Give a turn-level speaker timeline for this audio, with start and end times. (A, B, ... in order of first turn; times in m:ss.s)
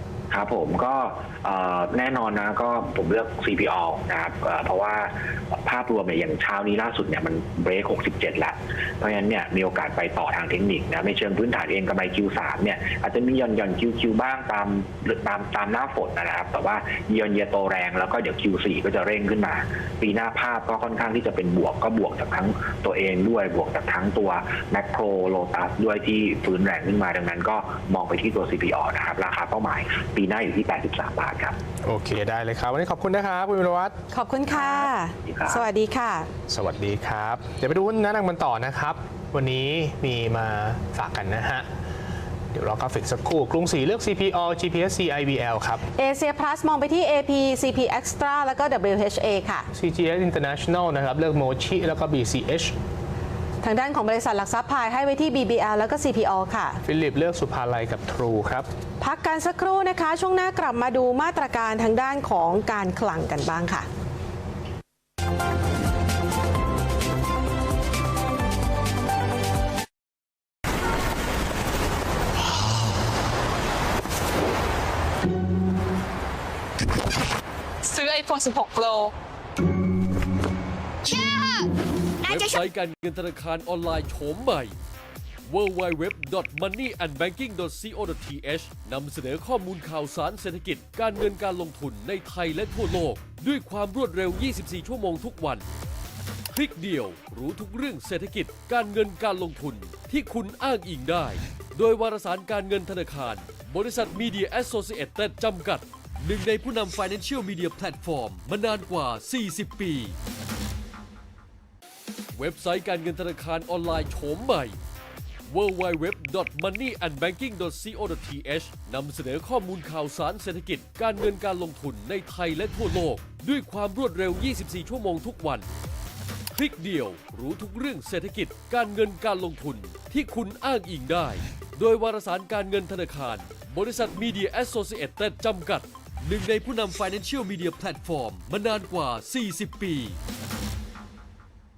0:00.3-0:31.6 A
0:31.8-0:34.0 B
0:34.1-0:36.3 C
0:34.6-0:35.6 A
0:36.5-0:41.6 B
0:42.5-0:45.8 B
0:46.0-0:49.7 C
0:49.7-0:52.8 B
0:53.6-0:56.8 C
0:56.8-0:58.7 B
0:59.0-1:03.8 C
1:17.8-1:19.1 D
1:21.0-1:21.7 D
1:22.2-1:22.6 D
1:22.2-1:24.8 E
1:25.4-1:35.6 E
1:36.5-1:50.2 E
1:52.3-1:54.8 E
1:55.5-2:05.7 E
2:06.5-2:20.2 E